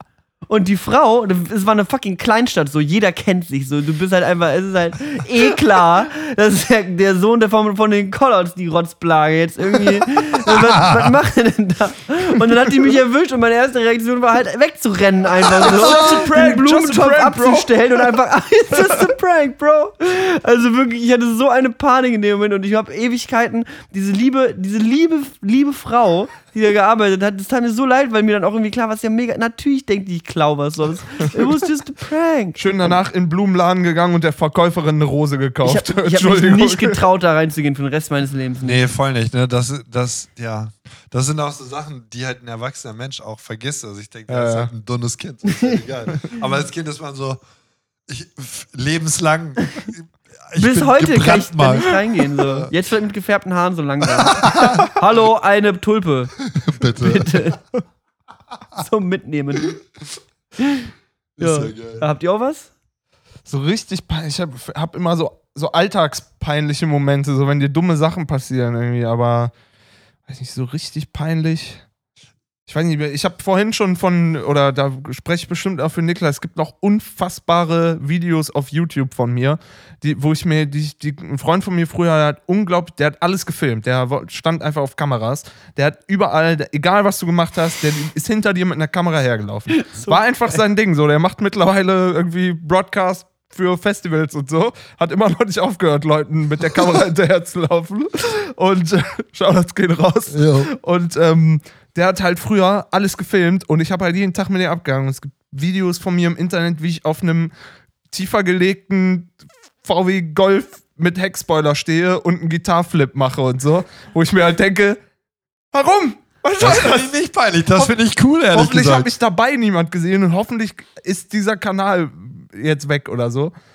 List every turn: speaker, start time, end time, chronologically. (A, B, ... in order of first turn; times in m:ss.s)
0:00.5-0:33.0 A
0:10.8-0:11.1 B
0:15.6-0:18.1 C
0:32.6-0:37.0 C
0:35.6-0:38.8 A
0:38.6-0:47.4 B
0:44.3-0:44.7 C
0:48.1-0:52.7 B
0:50.6-0:57.6 A
0:54.2-0:54.9 B
0:56.5-0:57.5 B
0:58.7-0:59.8 A
1:00.6-1:02.7 A
1:01.4-1:02.0 B
1:03.4-1:09.5 C
1:10.3-1:11.8 C
1:12.7-1:47.5 C
1:29.7-1:30.6 A
1:40.3-1:40.7 B
1:48.1-1:49.3 C
1:49.8-1:55.0 C
1:55.7-1:57.1 C
1:56.6-1:59.1 B
1:58.5-2:03.5 C